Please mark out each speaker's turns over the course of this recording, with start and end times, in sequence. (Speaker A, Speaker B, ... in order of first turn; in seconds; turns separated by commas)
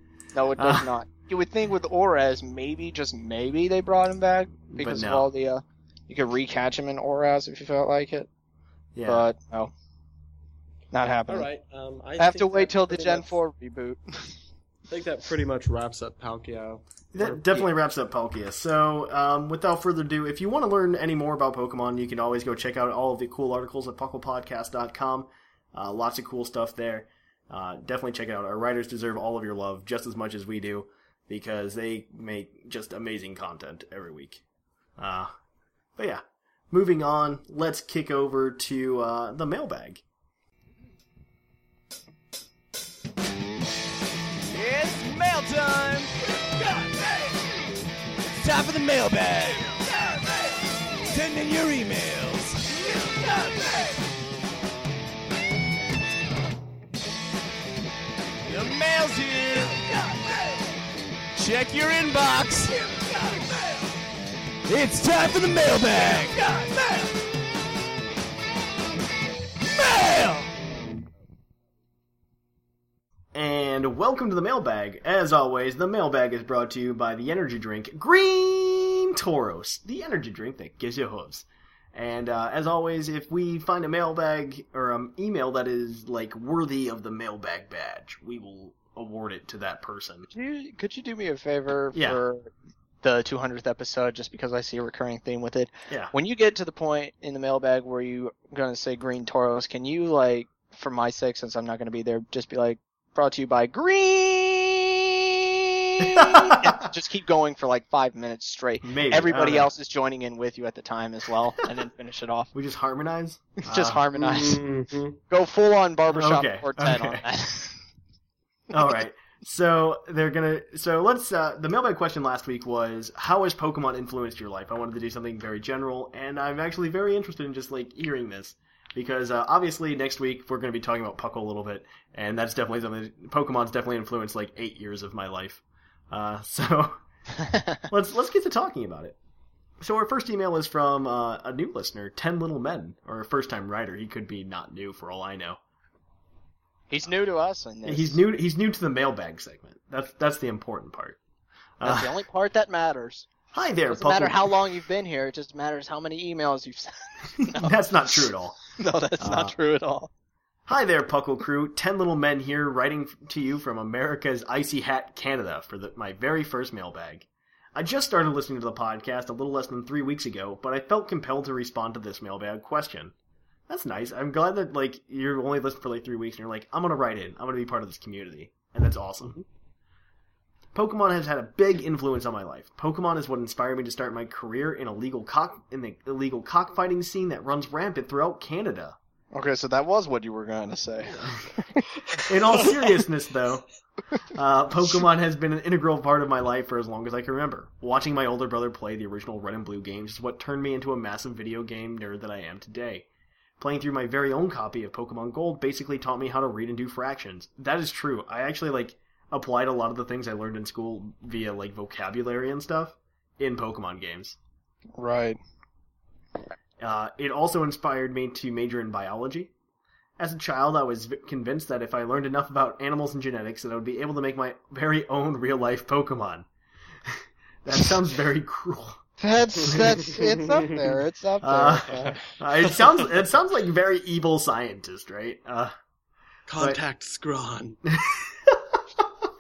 Speaker A: 0.3-8.3, Speaker B: 0.6-0.9, Speaker B: 4.8-5.3, Speaker B: 8.9-9.3, Speaker A: 9.1-9.7, Speaker A: 10.9-11.5, Speaker C: 11.3-13.4, Speaker A: 12.2-14.4, Speaker C: 14.9-17.7, Speaker B: 17.1-34.4, Speaker B: 35.0-35.3, Speaker B: 36.0-40.0, Speaker D: 44.5-47.4, Speaker D: 48.3-54.0, Speaker D: 58.5-60.5, Speaker D: 61.4-63.7, Speaker D: 64.7-67.1, Speaker D: 69.7-70.7, Speaker B: 73.3-90.3, Speaker A: 90.3-92.5, Speaker B: 91.9-92.2, Speaker A: 93.0-105.1, Speaker A: 105.9-112.5, Speaker B: 106.0-106.8, Speaker B: 108.8-109.7, Speaker B: 112.5-114.0, Speaker A: 113.7-114.6, Speaker C: 114.2-115.2, Speaker A: 115.3-117.8, Speaker B: 116.1-117.2, Speaker B: 118.7-137.0, Speaker B: 137.9-139.2, Speaker B: 139.8-145.6, Speaker A: 146.9-148.2, Speaker B: 147.9-151.2, Speaker B: 151.8-152.2, Speaker A: 151.8-153.3, Speaker B: 153.5-154.6, Speaker A: 153.9-157.8, Speaker B: 157.4-158.6, Speaker A: 158.8-160.1, Speaker B: 159.2-159.5, Speaker B: 160.7-173.1, Speaker B: 173.7-179.4, Speaker B: 180.7-189.0, Speaker A: 189.3-191.9, Speaker B: 192.3-193.7, Speaker B: 194.3-203.1, Speaker B: 203.6-214.4, Speaker A: 215.0-215.4, Speaker B: 216.8-219.5, Speaker B: 220.2-226.5, Speaker B: 227.1-229.0, Speaker A: 229.2-232.2, Speaker C: 229.8-230.7, Speaker B: 231.4-235.7, Speaker C: 231.9-232.2, Speaker C: 236.5-237.8, Speaker B: 237.9-238.8